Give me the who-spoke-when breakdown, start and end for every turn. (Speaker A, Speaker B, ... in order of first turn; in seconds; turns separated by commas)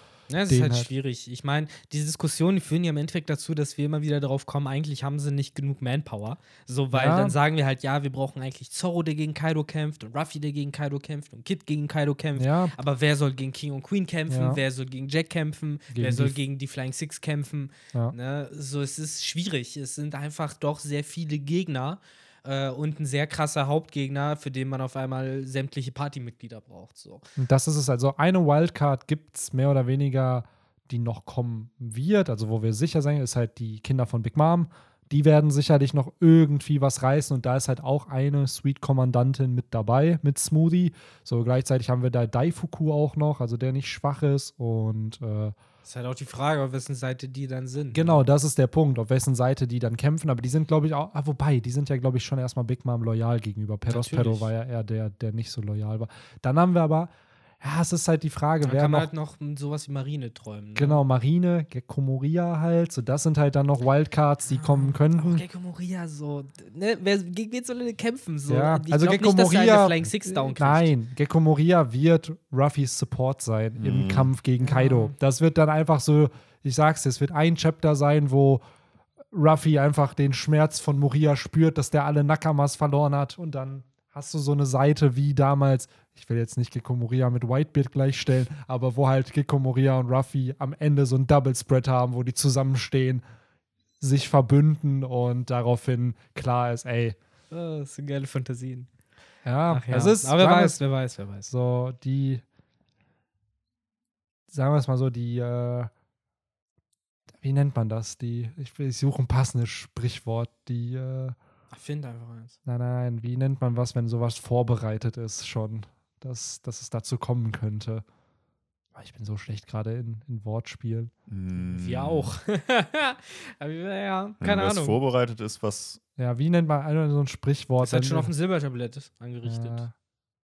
Speaker A: 0.3-27.3, Speaker B: 0.5-0.9, Speaker B: 6.9-7.3, Speaker B: 12.4-12.7, Speaker B: 14.3-14.6, Speaker B: 15.9-16.4, Speaker B: 27.4-45.5, Speaker A: 45.9-48.2, Speaker B: 47.9-59.1, Speaker A: 53.9-54.5, Speaker A: 58.6-61.0, Speaker B: 60.8-65.4, Speaker A: 64.5-70.9, Speaker B: 68.5-78.6, Speaker C: 73.8-74.3, Speaker A: 74.6-75.1, Speaker B: 79.3-93.2, Speaker B: 94.0-97.2, Speaker A: 97.5-98.9, Speaker B: 99.5-100.8, Speaker A: 99.7-101.5, Speaker B: 101.5-102.4, Speaker B: 104.5-105.9, Speaker B: 107.4-111.4, Speaker A: 111.7-112.6, Speaker B: 112.7-118.0, Speaker B: 119.0-121.1, Speaker C: 121.3-122.3, Speaker A: 121.6-125.0, Speaker C: 124.4-126.0, Speaker B: 126.2-128.3, Speaker A: 127.8-129.8, Speaker B: 129.4-129.9